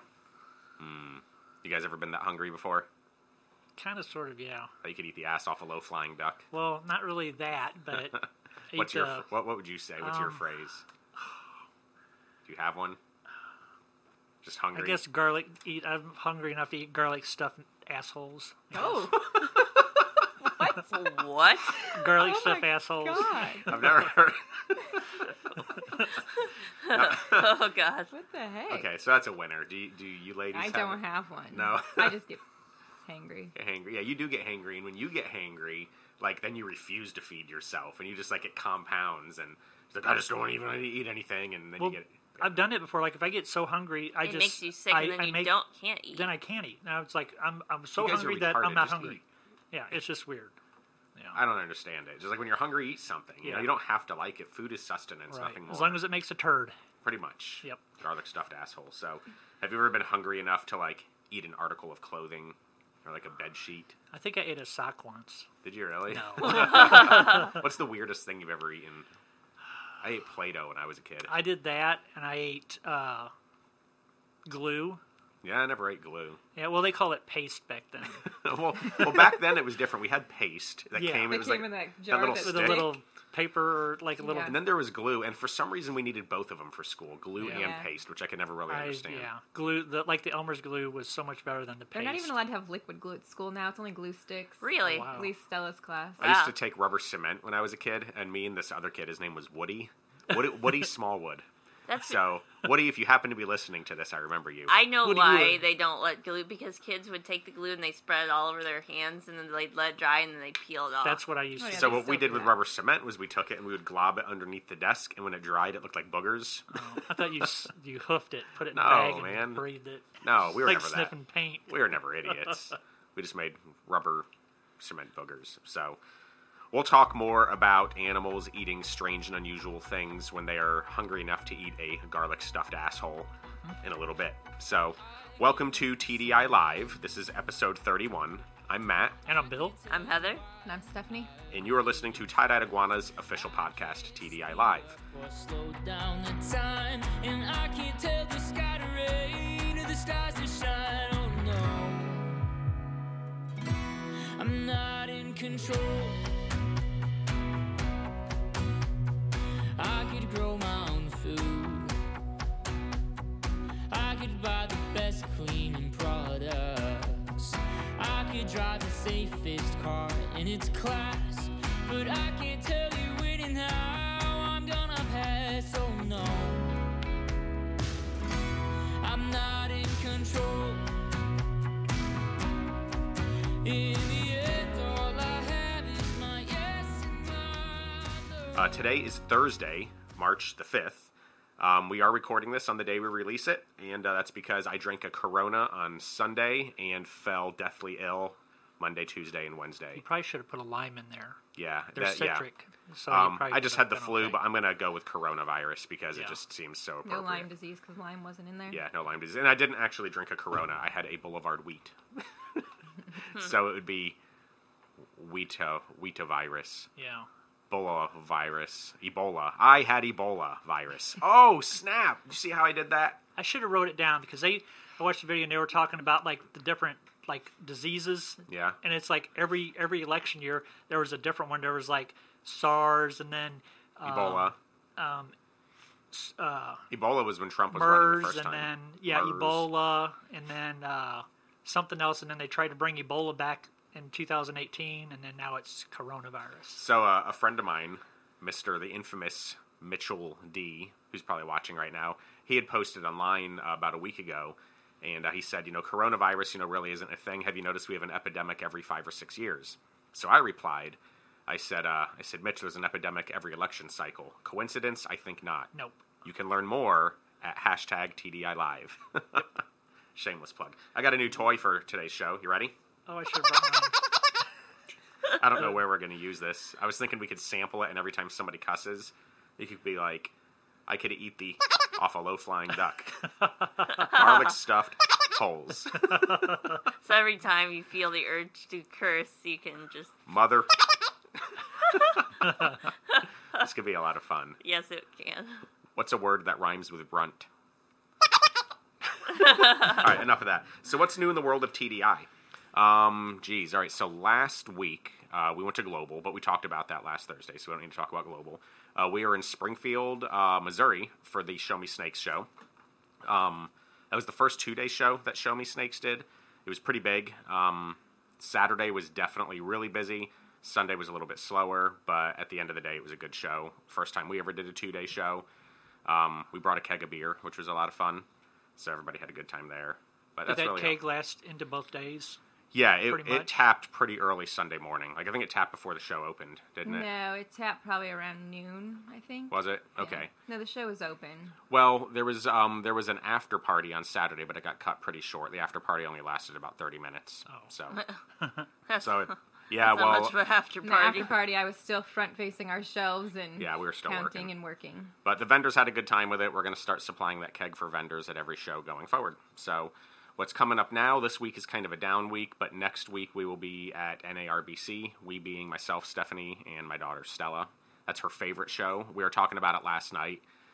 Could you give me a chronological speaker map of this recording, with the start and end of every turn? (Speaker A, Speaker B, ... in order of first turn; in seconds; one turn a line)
Speaker A: 0.8-2.9
Speaker B: 3.8-4.7
Speaker A: 4.8-6.5
Speaker B: 6.5-9.3
Speaker A: 7.9-10.8
Speaker B: 10.0-10.4
Speaker A: 12.4-13.0
Speaker A: 14.4-15.0
Speaker B: 14.8-19.2
Speaker C: 18.7-19.8
Speaker C: 20.4-21.2
Speaker D: 20.9-21.9
Speaker B: 21.9-24.0
Speaker C: 22.1-24.1
Speaker A: 23.7-25.2
Speaker D: 26.8-28.1
Speaker A: 26.9-27.6
Speaker C: 28.1-28.9
Speaker A: 28.7-32.2
Speaker C: 30.5-32.4
Speaker C: 33.0-33.5
Speaker A: 33.5-42.6
Speaker B: 41.8-45.5
Speaker D: 44.2-46.3
Speaker B: 46.1-50.5
Speaker A: 48.0-49.2
Speaker A: 51.3-56.0
Speaker B: 53.4-53.7
Speaker B: 55.3-56.8
Speaker A: 57.0-64.0
Speaker B: 64.1-65.5
Speaker A: 65.6-69.1
Speaker B: 66.1-67.6
Speaker A: 70.0-71.3
Speaker B: 71.3-73.3
Speaker B: 74.5-75.0
Speaker A: 75.4-76.4
Speaker B: 76.6-78.3
Speaker A: 78.2-83.0
Speaker B: 78.9-79.4
Speaker B: 80.9-81.4
Speaker C: 81.3-83.0
Speaker B: 82.3-84.6
Speaker C: 84.2-84.6
Speaker A: 84.4-89.3
Speaker B: 87.4-87.7
Speaker C: 87.5-87.9
Speaker B: 88.7-92.3
Speaker C: 91.9-96.2
Speaker D: 94.6-95.1
Speaker B: 94.8-95.3
Speaker D: 96.2-96.5
Speaker A: 96.2-104.8
Speaker D: 101.9-102.2
Speaker D: 104.7-111.2
Speaker B: 105.0-105.7
Speaker B: 111.0-112.3
Speaker C: 111.6-112.6
Speaker A: 111.7-116.7
Speaker B: 116.7-121.8
Speaker A: 118.7-119.7
Speaker A: 120.2-121.2
Speaker A: 121.7-124.3
Speaker A: 124.8-126.0
Speaker A: 126.7-133.3
Speaker A: 133.8-139.2
Speaker E: 135.6-136.3
Speaker B: 139.3-139.8
Speaker E: 139.4-142.5
Speaker D: 139.9-140.4
Speaker C: 140.7-141.3
Speaker A: 141.5-145.0
Speaker E: 143.1-152.5
Speaker E: 154.3-156.2
Speaker E: 159.8-161.9
Speaker E: 163.9-176.8
Speaker E: 179.0-180.9
Speaker E: 183.6-188.9
Speaker A: 188.6-200.0
Speaker B: 199.9-201.4
Speaker A: 201.6-202.5
Speaker B: 201.9-204.4
Speaker A: 203.1-207.5
Speaker C: 207.1-208.8
Speaker A: 208.7-214.2
Speaker A: 215.2-216.9
Speaker B: 217.0-217.3
Speaker A: 217.7-223.2
Speaker B: 223.4-235.3
Speaker A: 228.5-228.8
Speaker A: 234.0-234.6
Speaker B: 236.1-236.9
Speaker A: 236.9-239.7
Speaker B: 237.7-246.8
Speaker A: 246.8-265.7
Speaker B: 265.7-266.0
Speaker A: 266.2-269.6
Speaker A: 270.1-272.7
Speaker B: 273.1-274.0
Speaker A: 275.3-280.3
Speaker A: 280.9-283.3
Speaker A: 283.9-286.2
Speaker D: 284.0-284.3
Speaker D: 287.0-290.2
Speaker A: 290.3-290.9
Speaker A: 291.9-292.2
Speaker A: 293.6-294.6
Speaker D: 294.6-295.6
Speaker A: 296.0-297.5
Speaker A: 299.2-312.5
Speaker D: 299.4-300.0
Speaker A: 313.2-325.5
Speaker A: 326.1-328.3
Speaker A: 328.8-331.0
Speaker B: 330.5-332.4
Speaker A: 332.7-337.1
Speaker B: 333.1-333.5
Speaker C: 336.8-341.6
Speaker A: 339.5-340.3
Speaker A: 341.7-348.0
Speaker B: 348.4-348.7
Speaker D: 348.9-351.4
Speaker A: 348.9-350.4
Speaker C: 350.8-355.1
Speaker A: 353.6-354.5
Speaker A: 355.2-370.4